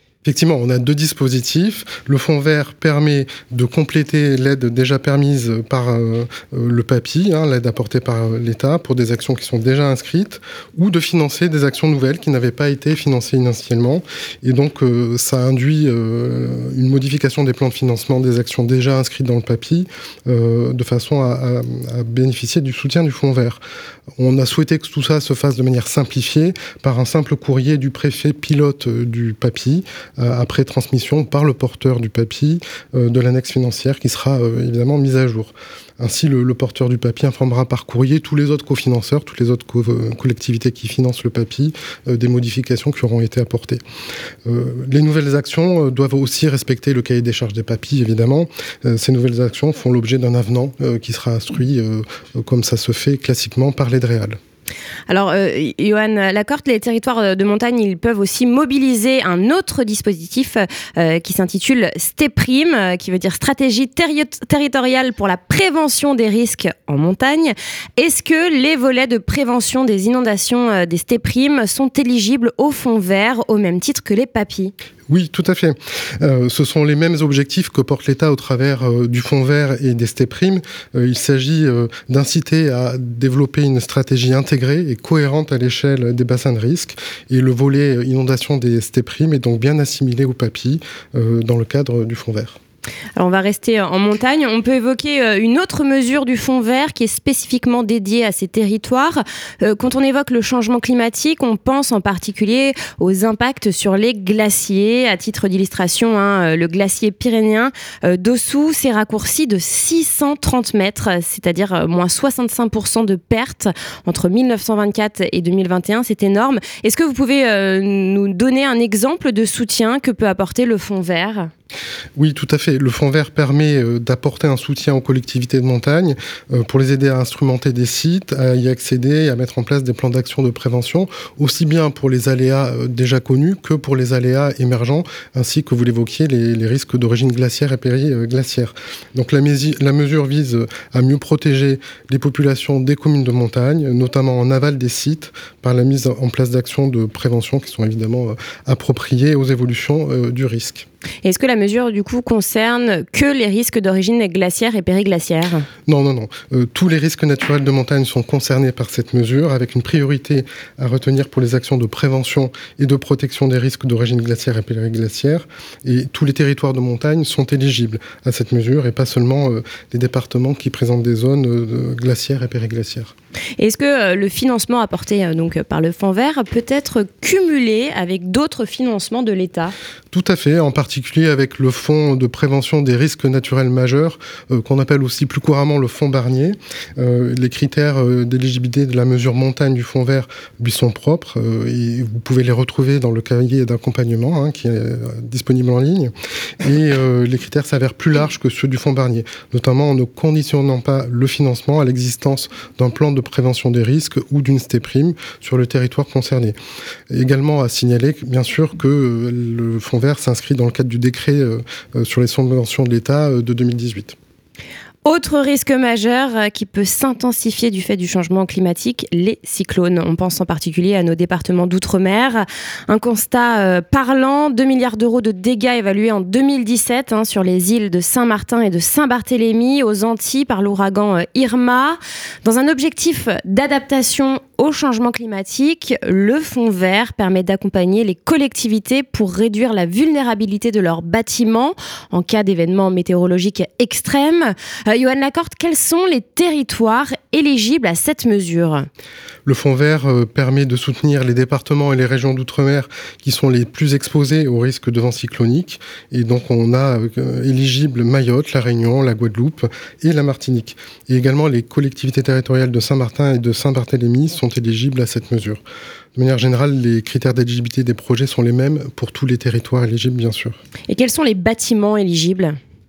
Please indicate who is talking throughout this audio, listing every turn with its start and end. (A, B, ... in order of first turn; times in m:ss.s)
0:00.2-0:23.6 A
0:24.2-0:43.8 A
0:44.4-0:54.4 A
0:55.1-1:14.7 B
1:15.1-1:32.6 A
1:33.2-2:01.5 B
2:02.2-2:30.8 A
2:31.2-2:35.6 B
2:35.9-2:53.1 A
2:53.6-2:59.7 B
3:00.1-3:26.6 A
3:27.1-3:34.2 A
3:35.0-4:08.9 B
4:09.4-4:25.6 A
4:26.1-4:30.6 A
4:30.9-4:32.6 B